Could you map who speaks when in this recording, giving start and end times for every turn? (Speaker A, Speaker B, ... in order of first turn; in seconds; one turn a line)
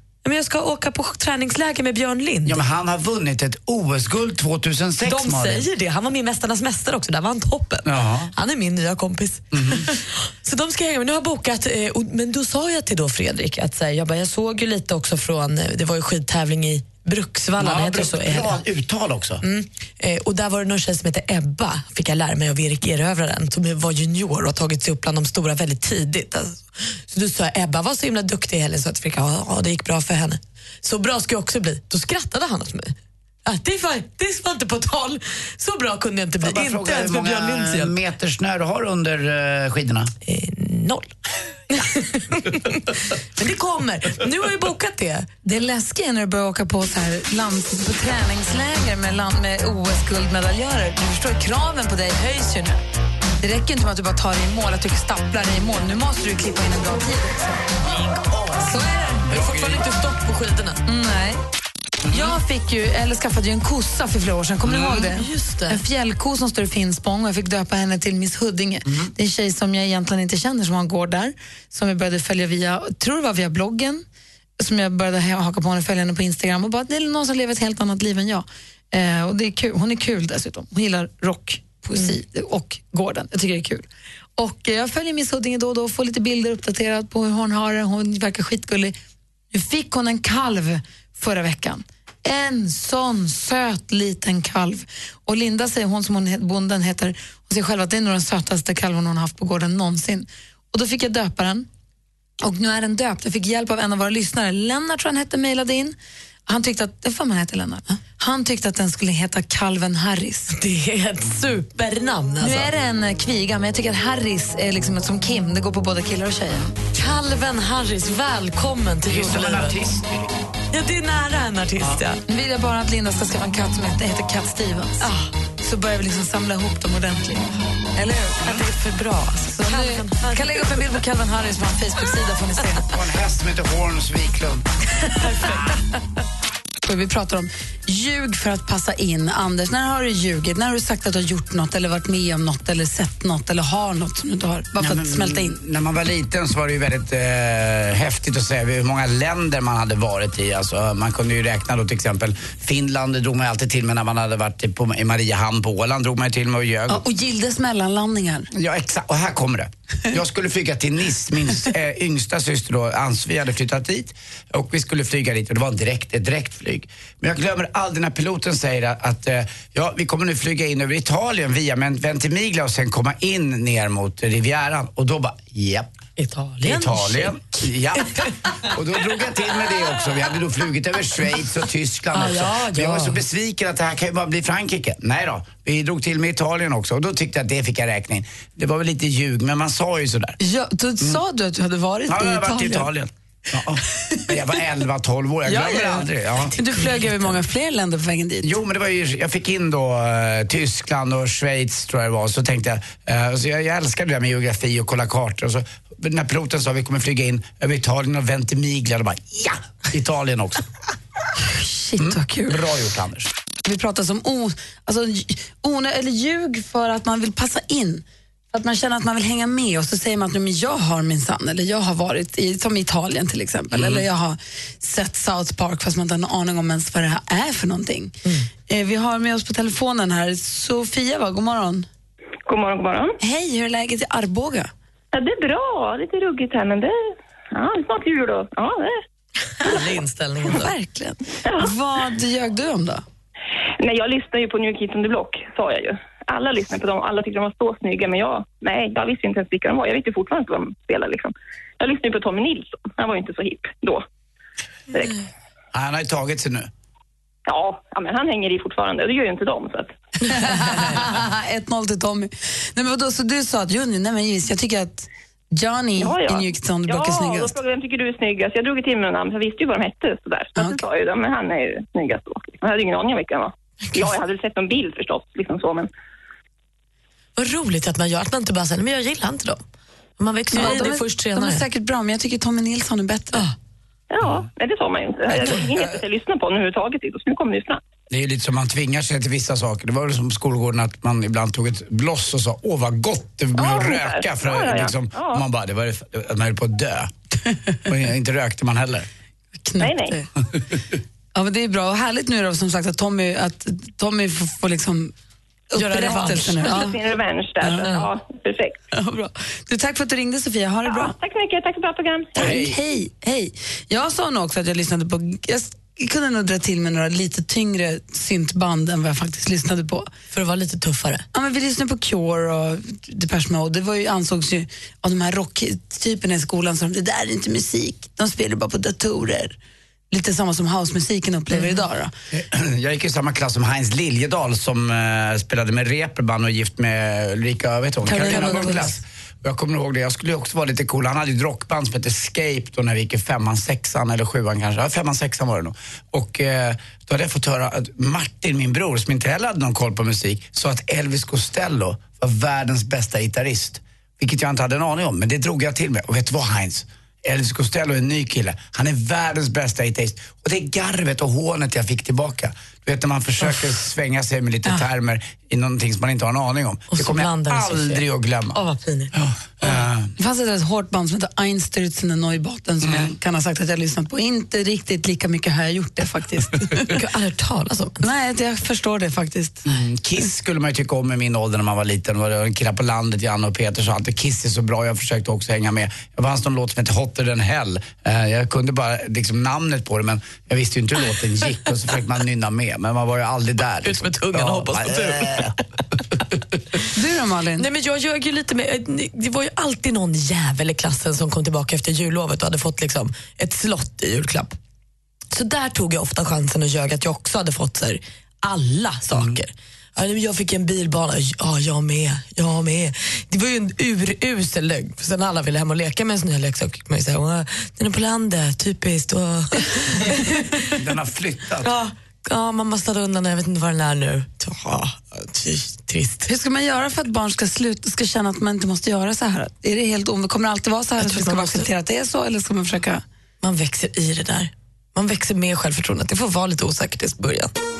Speaker A: 0.2-2.6
Speaker B: 2.5-5.7
Speaker A: 5.0-18.6
Speaker B: 7.8-8.3
Speaker B: 9.5-9.8
Speaker B: 17.6-19.4
Speaker A: 19.4-37.9
Speaker B: 36.4-40.1
Speaker A: 40.2-41.1
Speaker A: 41.7-45.3
Speaker C: 45.4-52.8
Speaker C: 53.4-57.6
Speaker A: 57.9-60.8
Speaker C: 58.6-59.3
Speaker B: 59.2-59.8
Speaker C: 60.9-61.4
Speaker B: 62.1-62.3
Speaker C: 62.1-74.0
Speaker B: 64.6-65.0
Speaker A: 64.7-65.8
Speaker B: 68.8-69.1
Speaker C: 74.6-83.8
Speaker C: 84.4-88.9
Speaker C: 89.5-101.7
Speaker C: 102.4-106.0
Speaker C: 106.5-110.5
Speaker A: 110.5-112.7
Speaker C: 112.4-116.6
Speaker A: 116.9-119.8
Speaker B: 119.1-120.3
Speaker A: 120.7-122.2
Speaker C: 122.3-125.1
Speaker A: 125.0-125.3
Speaker C: 125.6-128.5
Speaker A: 128.4-130.8
Speaker C: 129.5-132.8
Speaker B: 132.9-134.7
Speaker C: 136.8-145.6
Speaker B: 144.8-157.0
Speaker C: 156.9-158.5
Speaker B: 158.5-175.9
Speaker A: 176.2-177.4
Speaker B: 176.6-190.4
Speaker A: 182.1-183.2
Speaker C: 190.4-192.9
Speaker B: 192.1-196.5
Speaker C: 195.4-198.5
Speaker B: 198.4-210.7
Speaker C: 211.4-212.6
Speaker B: 212.0-213.3
Speaker C: 213.6-228.1
Speaker C: 228.7-231.9
Speaker D: 232.5-233.2
Speaker C: 233.2-234.7
Speaker D: 235.1-236.9
Speaker D: 237.5-239.0
Speaker A: 239.6-240.7
Speaker C: 240.5-243.0
Speaker D: 241.5-241.7
Speaker D: 243.8-254.0
Speaker D: 254.9-255.2
Speaker B: 255.7-256.7
Speaker D: 257.4-259.9
Speaker C: 260.2-267.6
Speaker D: 266.0-275.9
Speaker A: 277.4-279.6
Speaker A: 280.2-281.6
Speaker C: 280.5-283.4
Speaker D: 284.1-287.8
Speaker B: 288.1-297.1
Speaker D: 293.6-295.4
Speaker B: 297.9-299.1
Speaker C: 299.6-300.3
Speaker D: 299.8-300.2
Speaker C: 301.3-305.1
Speaker C: 305.7-306.9
Speaker A: 305.7-306.9
Speaker D: 306.6-308.8
Speaker C: 307.6-307.9
Speaker C: 308.9-311.1
Speaker D: 310.9-312.4
Speaker B: 312.3-312.8
Speaker C: 312.4-320.1
Speaker A: 320.3-321.2
Speaker C: 321.3-329.6
Speaker C: 330.1-332.1
Speaker A: 331.5-331.8
Speaker B: 332.3-368.6
Speaker A: 338.0-339.0
Speaker A: 366.9-369.8
Speaker B: 369.1-370.1
Speaker C: 370.2-376.9
Speaker B: 372.8-373.1
Speaker A: 376.9-378.0
Speaker C: 378.0-379.7
Speaker B: 379.6-395.6
Speaker A: 393.8-395.5
Speaker C: 396.9-397.7
Speaker A: 397.6-404.5
Speaker A: 405.3-420.7
Speaker B: 409.1-409.4
Speaker B: 420.7-421.7
Speaker A: 421.6-426.3
Speaker C: 426.3-433.0
Speaker A: 431.0-431.7
Speaker A: 433.4-437.5